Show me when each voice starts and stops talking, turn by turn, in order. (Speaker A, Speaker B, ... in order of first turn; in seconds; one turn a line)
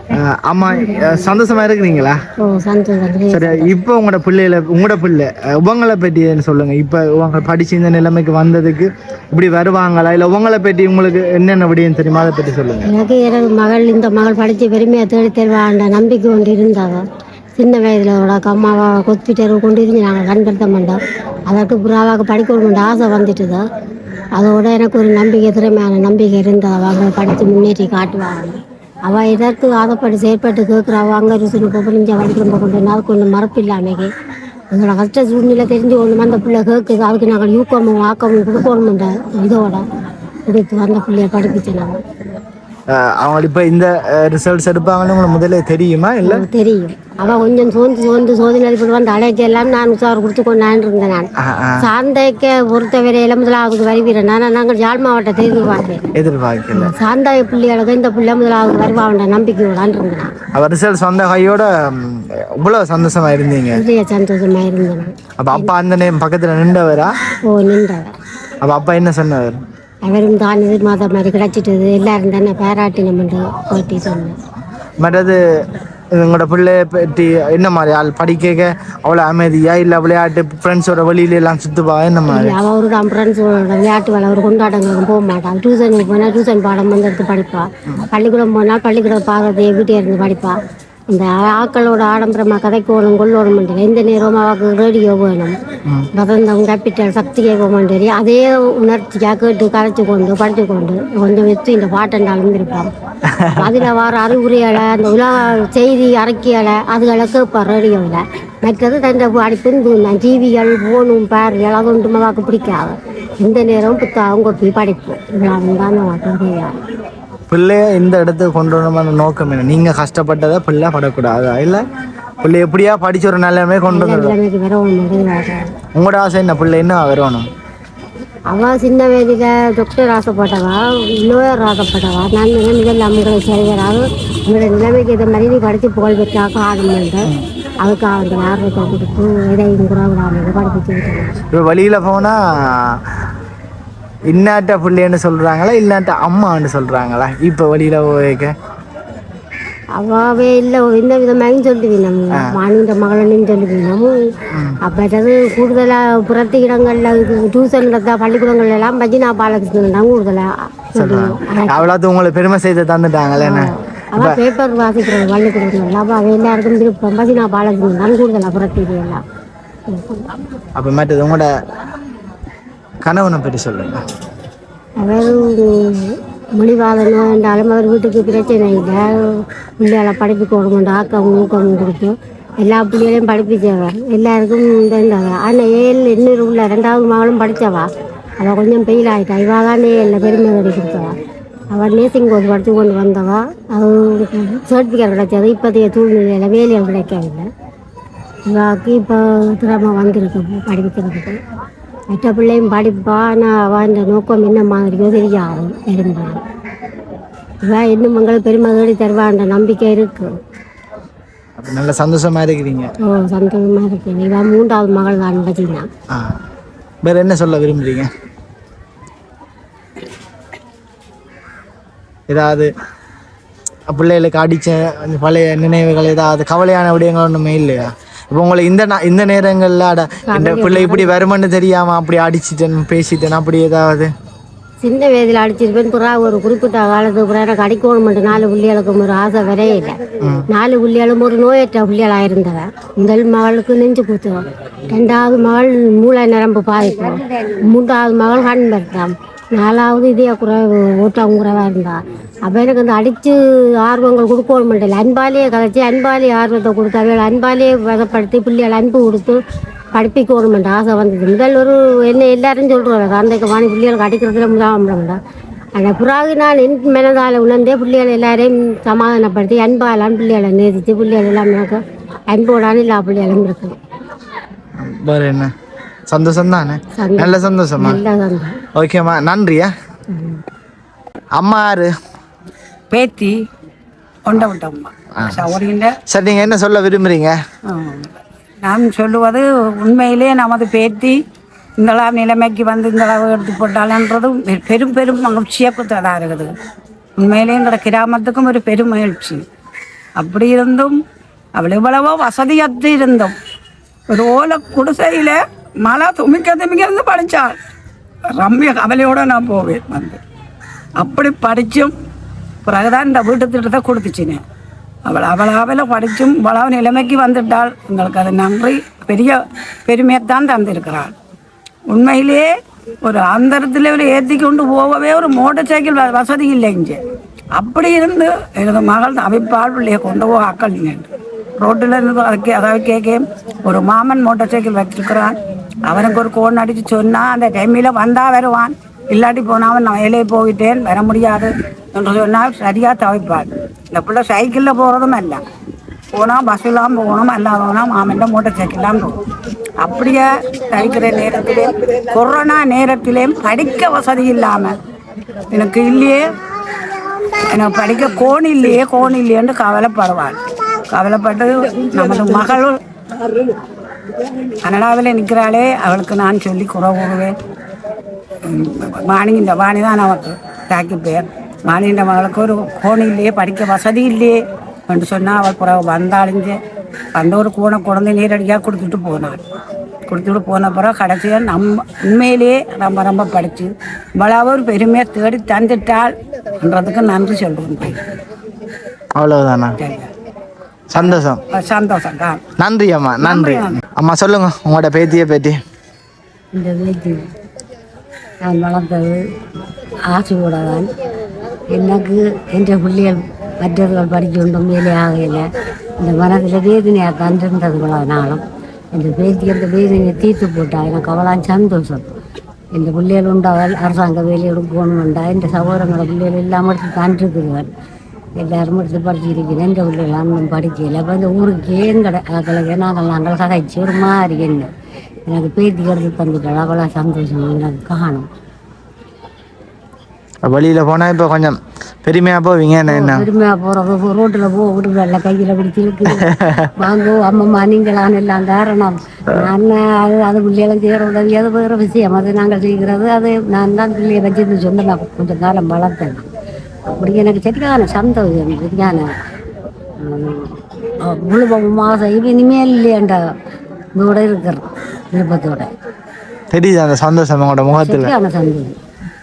Speaker A: 0.1-2.2
Speaker B: 2.4-3.7
Speaker A: 3.3-12.9
Speaker B: 12.8-17.0
Speaker B: 17.6-23.6
Speaker B: 24.4-34.1
Speaker B: 34.7-39.9
Speaker B: 40.5-42.0
Speaker A: 42.9-46.5
Speaker B: 46.2-51.3
Speaker A: 51.4-51.9
Speaker B: 51.8-56.1
Speaker A: 56.1-56.9
Speaker B: 56.7-60.4
Speaker A: 60.5-63.8
Speaker B: 63.7-65.7
Speaker A: 65.4-67.1
Speaker B: 67.5-68.2
Speaker A: 68.6-69.6
Speaker B: 70.0-74.4
Speaker A: 75.0-82.6
Speaker B: 82.3-90.6
Speaker B: 91.1-95.6
Speaker B: 96.2-102.9
Speaker A: 103.2-103.8
Speaker B: 103.6-116.8
Speaker A: 117.5-121.9
Speaker A: 122.4-124.4
Speaker B: 123.9-125.7
Speaker A: 126.0-127.5
Speaker B: 128.5-141.4
Speaker A: 141.5-143.1
Speaker A: 144.3-148.5
Speaker B: 150.0-154.3
Speaker A: 152.3-152.6
Speaker A: 154.5-154.8
Speaker B: 154.8-161.9
Speaker A: 161.0-164.4
Speaker B: 163.4-169.2
Speaker B: 169.9-170.3
Speaker A: 170.8-171.5
Speaker A: 173.1-174.0
Speaker B: 175.0-187.9
Speaker B: 188.4-191.2
Speaker B: 191.7-197.5
Speaker B: 198.5-201.4
Speaker B: 202.1-206.4
Speaker B: 207.6-210.3
Speaker A: 211.6-212.9
Speaker B: 213.0-215.9
Speaker A: 216.1-216.4
Speaker A: 217.0-218.1
Speaker A: 222.3-222.7
Speaker A: 223.9-234.1
Speaker B: 230.3-231.1
Speaker B: 234.8-240.0
Speaker A: 240.2-240.5
Speaker B: 240.5-259.4
Speaker C: 246.8-247.6
Speaker B: 259.9-265.2
Speaker B: 265.8-273.8
Speaker A: 274.8-275.5
Speaker A: 276.1-278.0
Speaker B: 277.0-278.6
Speaker A: 278.8-279.7
Speaker B: 280.1-280.4
Speaker A: 281.4-281.9
Speaker D: 282.9-283.4
Speaker D: 284.3-286.0
Speaker A: 285.2-285.5
Speaker A: 286.1-287.4
Speaker D: 287.7-288.1
Speaker D: 288.6-291.2
Speaker D: 291.8-296.5
Speaker D: 297.2-299.4
Speaker D: 300.2-301.0
Speaker D: 301.6-303.4
Speaker D: 304.1-307.6
Speaker D: 308.3-310.2
Speaker D: 310.9-311.9
Speaker D: 312.6-314.4
Speaker D: 315.1-321.1
Speaker D: 321.9-322.5
Speaker D: 323.0-327.0
Speaker D: 327.6-331.1
Speaker D: 331.6-345.4
Speaker D: 346.1-349.2
Speaker D: 349.8-354.8
Speaker D: 355.5-356.3
Speaker D: 357.5-360.4
Speaker D: 360.9-362.8
Speaker D: 364.6-367.4
Speaker D: 368.4-376.6
Speaker D: 377.1-379.4
Speaker D: 380.1-388.0
Speaker A: 389.2-389.8
Speaker D: 389.8-390.1
Speaker A: 390.9-391.4
Speaker D: 390.9-392.4
Speaker A: 392.6-395.6
Speaker D: 393.2-393.8
Speaker C: 396.5-397.2
Speaker C: 398.4-399.2
Speaker C: 400.1-400.9
Speaker C: 401.7-405.5
Speaker C: 406.0-408.4
Speaker C: 408.9-412.1
Speaker C: 412.8-417.7
Speaker C: 418.4-424.7
Speaker C: 425.3-428.3
Speaker A: 430.4-433.3
Speaker C: 432.9-446.2
Speaker A: 436.1-436.7
Speaker C: 446.9-449.1
Speaker C: 450.0-453.2
Speaker C: 454.0-455.7
Speaker A: 456.5-458.1
Speaker C: 457.8-458.8